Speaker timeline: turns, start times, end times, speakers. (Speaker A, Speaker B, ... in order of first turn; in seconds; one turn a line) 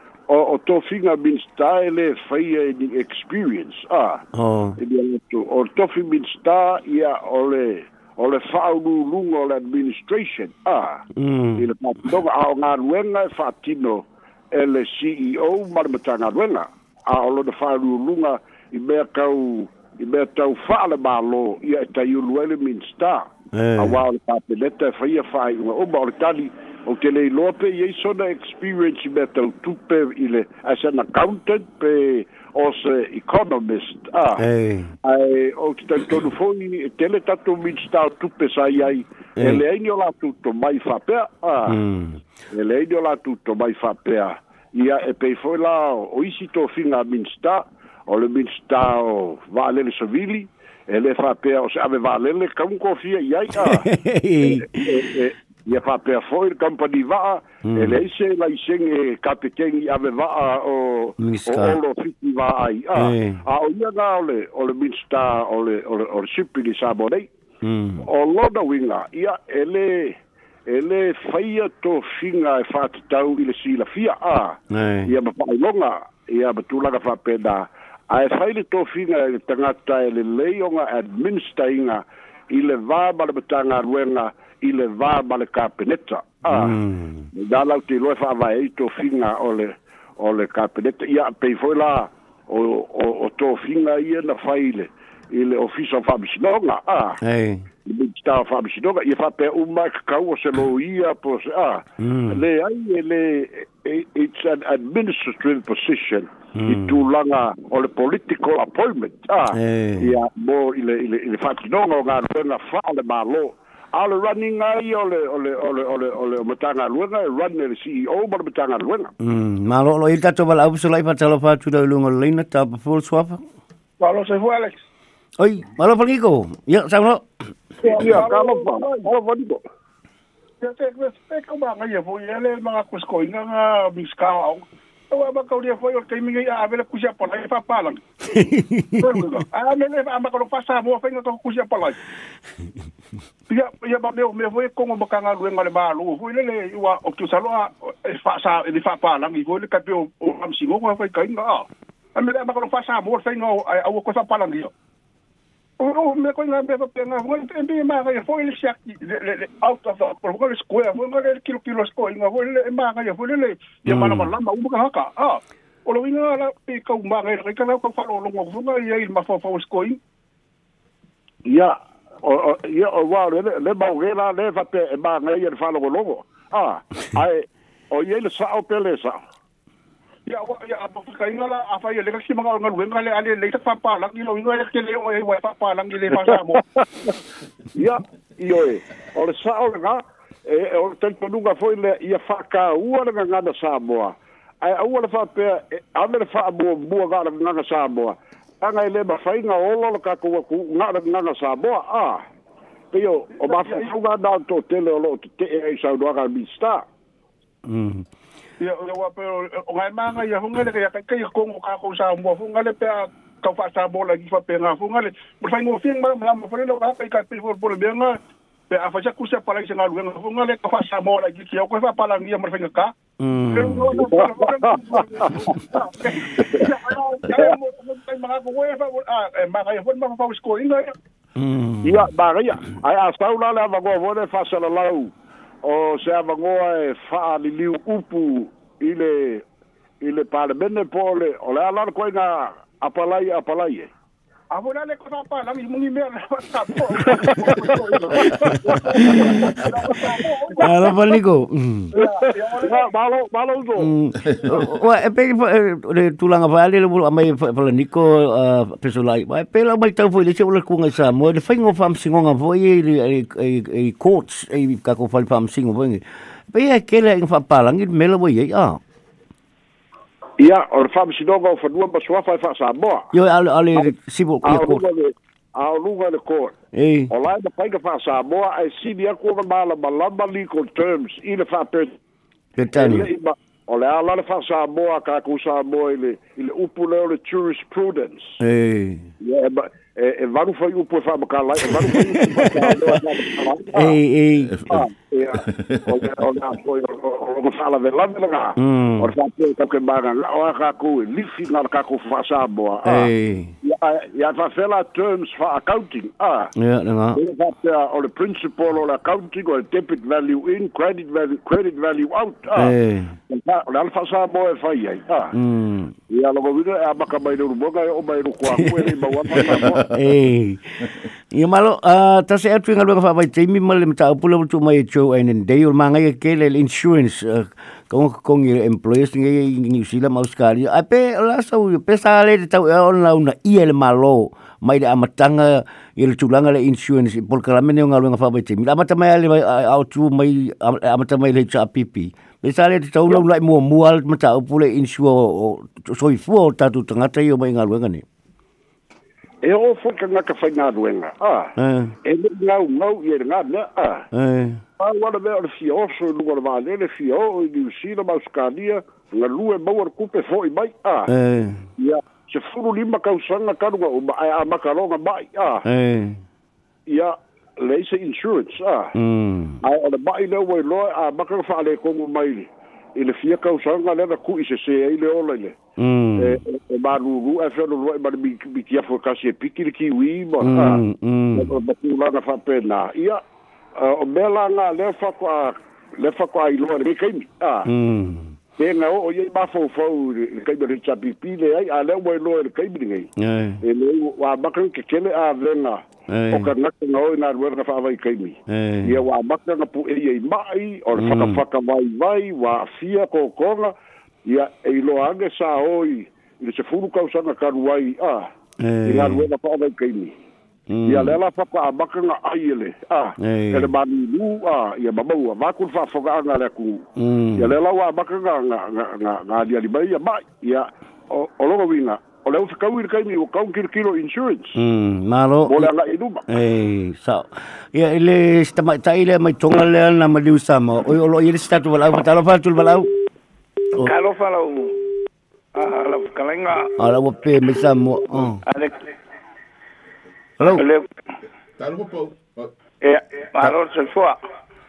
Speaker A: 0.3-4.2
Speaker B: 4.3-4.8
Speaker A: 4.8-11.0
Speaker B: 11.2-11.7
Speaker A: 11.6-34.4
Speaker B: 23.5-24.0
Speaker B: 34.4-34.9
Speaker A: 35.0-41.8
Speaker B: 39.4-39.6
Speaker B: 41.7-42.2
Speaker A: 42.5-53.9
Speaker B: 53.6-55.0
Speaker A: 54.4-67.3
Speaker B: 57.6-58.0
Speaker B: 61.2-61.8
Speaker B: 63.0-63.4
Speaker B: 67.6-68.1
Speaker A: 68.0-86.8
Speaker B: 74.7-75.1
Speaker B: 86.5-87.3
Speaker A: 87.3-97.2
Speaker B: 97.2-97.6
Speaker A: 97.8-119.1
Speaker B: 102.0-102.4
Speaker B: 106.5-107.0
Speaker B: 109.5-110.2
Speaker B: 119.2-123.4
Speaker C: 124.0-124.8
Speaker B: 125.4-127.2
Speaker C: 127.8-129.1
Speaker A: 127.8-129.6
Speaker C: 130.6-138.0
Speaker B: 138.3-139.4
Speaker C: 139.0-142.0
Speaker C: 143.5-154.7
Speaker C: 155.8-170.0
Speaker B: 163.9-164.3
Speaker A: 171.5-179.2
Speaker C: 180.3-186.6
Speaker A: 187.7-202.2
Speaker A: 202.9-206.8
Speaker C: 203.5-203.8
Speaker B: 207.7-208.0
Speaker C: 208.6-218.2
Speaker C: 218.7-222.9
Speaker B: 223.2-224.1
Speaker C: 223.5-230.9
Speaker A: 223.9-225.6
Speaker A: 226.3-226.7
Speaker A: 227.3-227.6
Speaker B: 231.4-232.1
Speaker A: 231.8-235.1
Speaker A: 235.6-239.4
Speaker A: 240.0-243.9
Speaker C: 244.5-251.1
Speaker A: 247.1-249.3
Speaker B: 248.9-249.5
Speaker A: 249.8-250.9
Speaker B: 250.6-251.9
Speaker C: 251.9-252.9
Speaker A: 251.9-253.9
Speaker B: 253.8-268.8
Speaker D: 254.3-254.6
Speaker A: 270.4-273.1
Speaker B: 273.1-274.8
Speaker A: 274.4-276.5
Speaker B: 276.7-277.1
Speaker A: 277.1-282.0
Speaker B: 282.6-283.1
Speaker A: 282.7-288.4
Speaker B: 288.4-289.1
Speaker A: 289.2-293.9
Speaker B: 291.9-293.0
Speaker B: 293.7-294.8
Speaker D: 294.5-294.8
Speaker A: 294.7-303.1
Speaker D: 295.4-296.0
Speaker B: 298.6-299.1
Speaker B: 302.8-303.5
Speaker A: 303.6-306.5
Speaker B: 306.6-307.2
Speaker A: 307.1-312.7
Speaker B: 312.5-313.2
Speaker A: 313.3-315.3
Speaker B: 315.3-315.9
Speaker A: 316.1-319.9
Speaker B: 318.6-318.8
Speaker D: 319.4-319.8
Speaker B: 319.9-348.0
Speaker A: 349.4-354.1
Speaker B: 351.6-351.9
Speaker B: 354.1-354.6
Speaker A: 354.8-361.1
Speaker B: 361.1-361.7
Speaker A: 361.8-365.6
Speaker B: 365.6-366.2
Speaker A: 366.9-368.9
Speaker B: 368.9-369.6
Speaker A: 369.6-375.6
Speaker B: 375.8-376.4
Speaker A: 376.2-380.8
Speaker B: 380.4-381.5
Speaker A: 381.3-383.2
Speaker A: 383.8-387.7
Speaker B: 387.6-388.4
Speaker A: 388.6-393.1
Speaker B: 393.2-393.6
Speaker A: 393.6-403.7
Speaker B: 396.1-396.5
Speaker B: 398.5-399.0
Speaker B: 401.0-401.4
Speaker A: 404.2-408.3
Speaker B: 408.6-409.3
Speaker A: 408.8-410.1
Speaker B: 410.7-411.2
Speaker A: 410.9-424.6
Speaker B: 413.2-413.7
Speaker B: 417.0-417.5
Speaker B: 424.5-425.7
Speaker A: 425.5-426.2
Speaker B: 426.3-432.9
Speaker E: 433.8-434.8
Speaker E: 435.5-436.7
Speaker B: 436.8-438.4
Speaker E: 438.4-438.9
Speaker B: 440.4-440.6
Speaker E: 440.6-440.9
Speaker D: 441.6-442.5
Speaker E: 442.8-444.2